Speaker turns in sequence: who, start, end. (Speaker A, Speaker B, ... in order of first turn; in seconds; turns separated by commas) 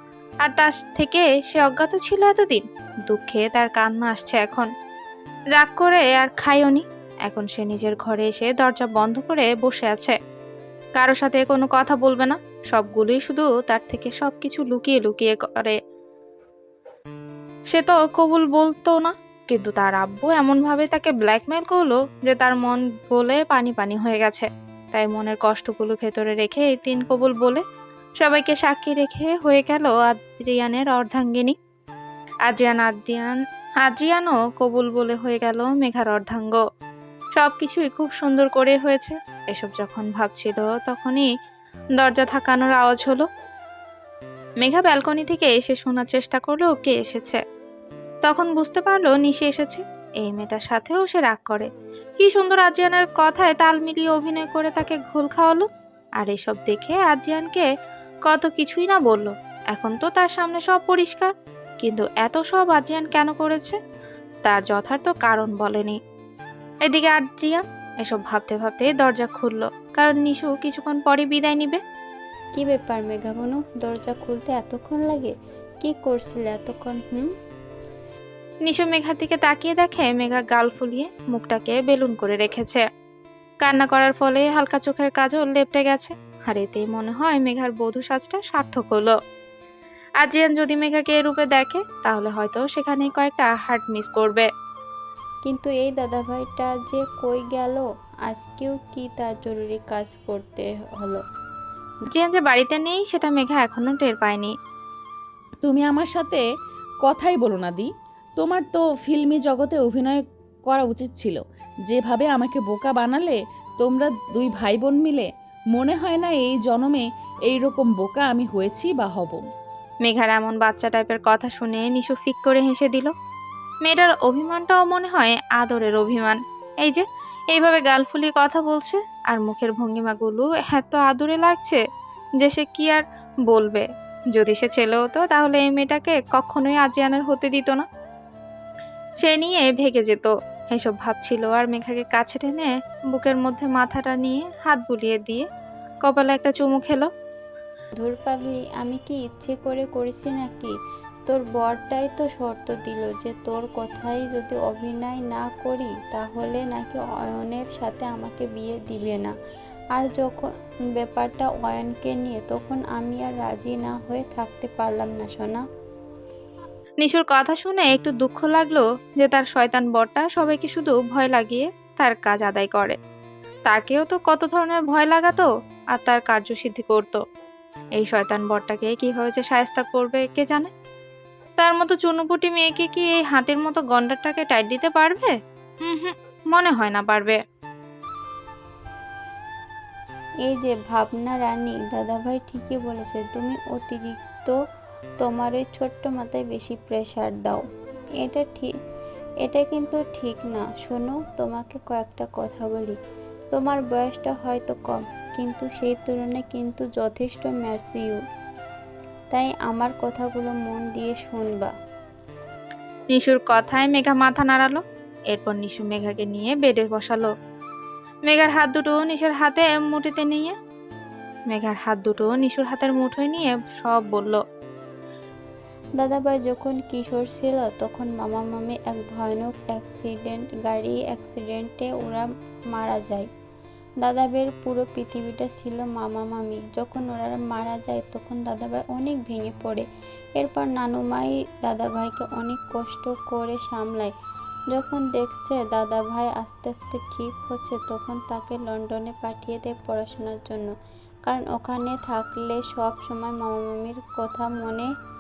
Speaker A: 0.4-4.7, Speaker A: 5.6-10.2, Speaker A: 11.0-15.8, Speaker A: 17.7-27.6, Speaker A: 28.2-31.6, Speaker A: 32.5-33.3, Speaker A: 33.8-36.6, Speaker A: 37.4-41.3, Speaker A: 42.0-43.3, Speaker A: 44.6-47.4, Speaker A: 48.2-55.7, Speaker A: 56.2-57.7, Speaker A: 58.3-63.8, Speaker A: 64.5-66.0, Speaker A: 66.9-71.8, Speaker B: 72.6-77.3, Speaker A: 78.7-82.8, Speaker A: 83.6-89.2, Speaker A: 90.2-94.5, Speaker B: 95.5-101.2, Speaker A: 102.1-104.5, Speaker C: 105.6-106.4, Speaker C: 107.0-119.4, Speaker A: 120.0-123.1, Speaker A: 123.8-131.8, Speaker A: 132.4-137.8, Speaker A: 139.2-145.5, Speaker A: 146.1-147.1, Speaker B: 148.0-150.7, Speaker B: 151.3-159.3, Speaker B: 159.9-165.6, Speaker A: 167.0-173.0, Speaker A: 173.7-177.2, Speaker A: 178.0-180.7, Speaker A: 181.6-185.3, Speaker A: 185.8-187.4, Speaker B: 190.5-194.6, Speaker B: 195.2-197.6, Speaker B: 198.2-198.7, Speaker B: 199.4-203.0, Speaker B: 203.5-208.2, Speaker B: 209.3-211.7, Speaker A: 213.1-217.3, Speaker A: 218.3-220.5, Speaker A: 221.5-224.4, Speaker B: 226.0-233.3, Speaker B: 234.0-239.8, Speaker B: 240.4-244.1, Speaker B: 244.7-250.7, Speaker B: 251.3-254.9